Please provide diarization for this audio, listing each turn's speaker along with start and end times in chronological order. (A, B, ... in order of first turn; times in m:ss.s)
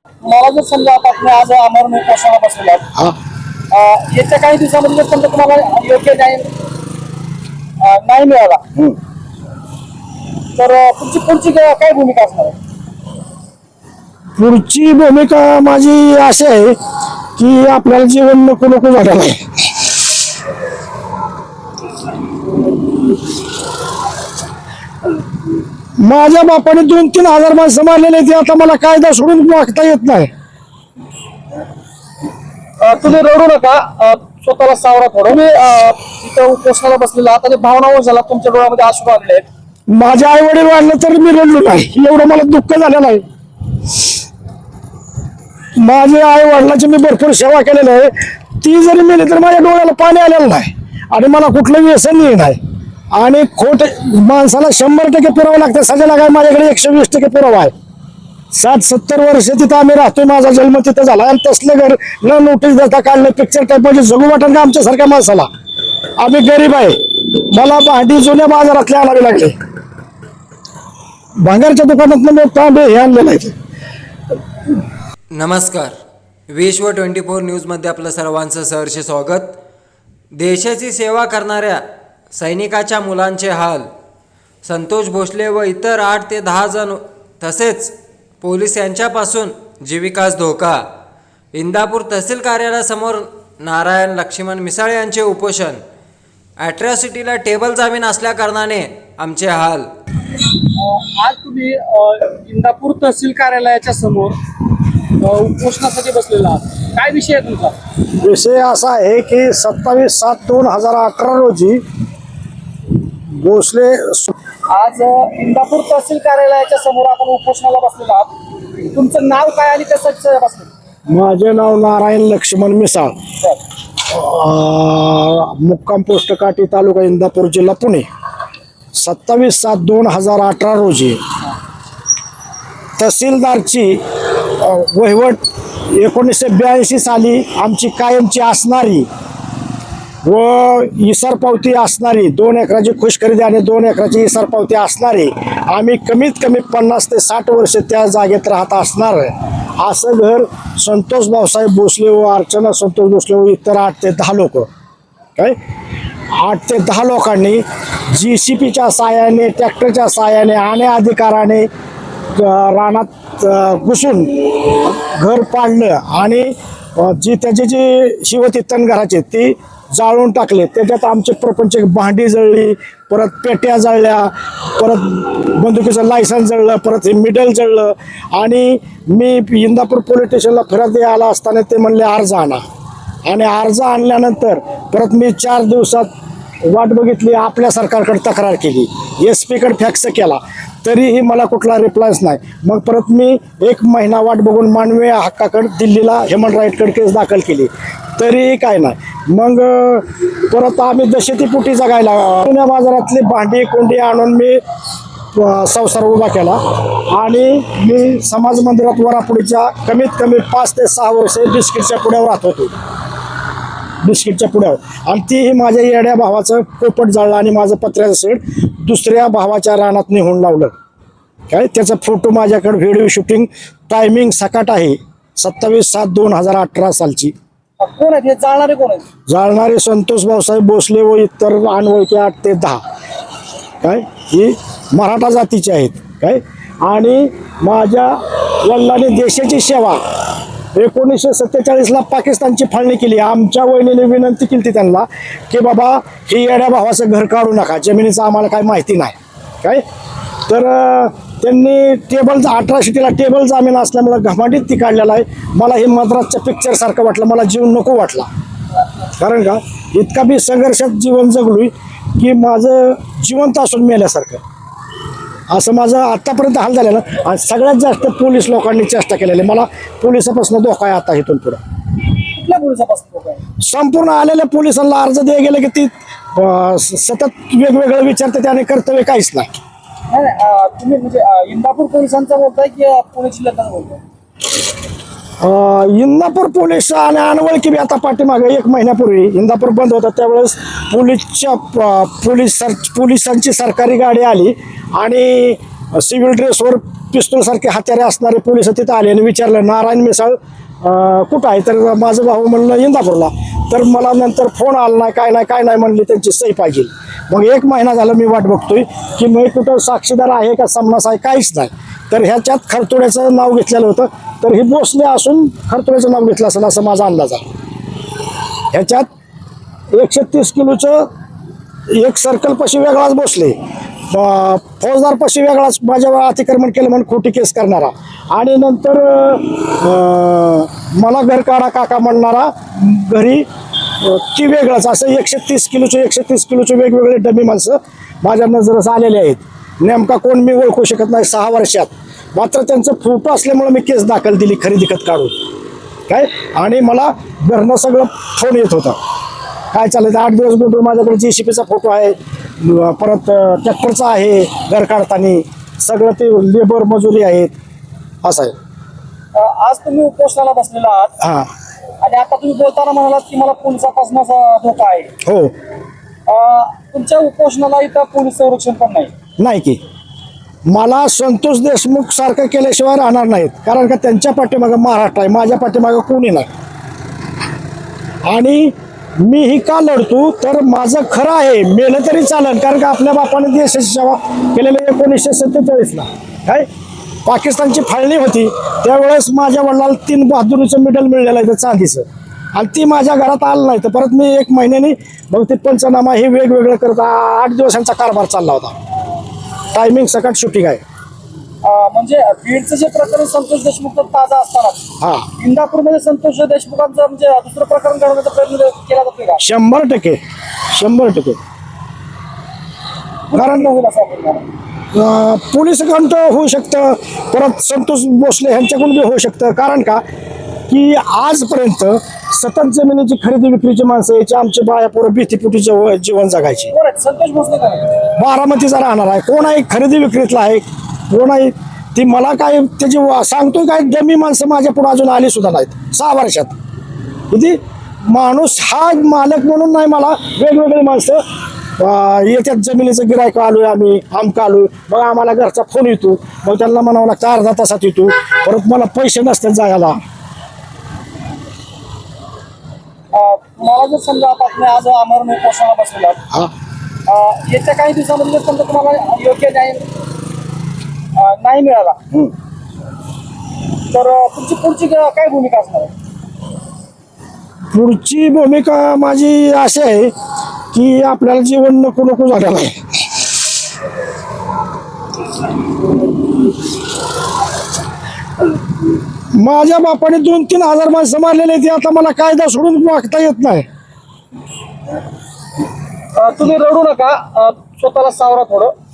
0:00.2-0:02.9 A
0:03.7-0:06.5 A
0:07.8-0:08.6 A
0:10.6-0:12.6 A
0:14.4-0:16.8 B
0:17.4-0:19.5 B
0:26.0-0:30.3 B
0:32.8-0:39.5 A
0:39.9-0:43.2 B
0:45.8-0:52.6 B
0:53.1-0:57.7 B
0:58.5-1:05.5 B
1:06.2-1:09.6 B
1:11.4-1:13.6 B
1:15.3-1:16.0 C
1:16.5-1:19.6 C
1:20.4-1:21.8 C
1:22.3-1:23.9 C
1:24.6-1:30.8 C
1:31.5-1:35.8 C
1:36.6-1:39.9 C
1:40.8-1:44.4 A
1:45.2-1:47.8 A
1:48.2-1:51.8 B
1:53.3-1:54.3 B
1:54.7-1:58.3 A
1:58.9-2:00.7 A
2:01.1-2:03.1 B
2:04.0-2:08.1 B
2:09.0-2:11.2 B
2:13.0-2:19.1 B
2:20.2-2:34.7 B
2:36.3-2:41.7 B
2:42.3-3:02.6 B
3:03.2-3:06.1 B
3:06.6-3:24.6 B
3:25.3-3:32.7 B
3:34.0-3:40.7 B
3:41.5-3:47.3 B
3:47.8-3:49.0 A
3:49.3-3:52.8 B
3:53.8-4:00.0 B
4:00.8-4:09.8 B
4:10.5-4:18.3 B
4:19.2-4:24.4 B
4:25.5-4:31.6 B
4:32.3-4:33.4 A
4:33.6-4:39.5 B
4:40.1-4:44.0 A
4:45.4-5:17.4 B
5:18.7-5:19.1 B
5:19.9-5:21.1 B
5:21.9-5:23.6 B
5:24.1-5:33.4 B
5:34.0-5:45.3 B
5:46.1-5:49.0 B
5:49.7-5:57.5 B
5:58.2-5:58.6 B
5:59.3-6:01.1 A
6:01.2-6:01.5 B
6:02.0-6:05.1 A
6:05.2-6:05.5 B
6:06.3-6:09.1 A
6:09.4-6:09.8 B
6:10.7-6:16.5 B
6:18.3-6:26.7 B
6:27.3-6:38.7 B
6:39.7-6:40.8 B
6:41.6-6:49.4 A
6:45.0-6:45.3 B
6:49.4-6:50.2 B
6:50.7-6:51.4 B
6:53.3-6:54.4 A
6:53.3-6:53.7 B
6:54.9-7:00.0 B
7:00.7-7:06.7 B
7:06.7-7:07.9 A
7:08.2-7:16.6 B
7:17.3-7:17.6 B
7:18.1-7:21.2 B
7:21.8-7:30.0 B
7:33.1-7:36.2 A
7:37.1-7:39.8 A
7:41.2-7:42.0 A
7:43.9-7:45.9 A
7:47.7-7:50.1 B
7:50.7-7:52.8 B
7:59.4-8:03.7 B
8:06.1-8:08.7 A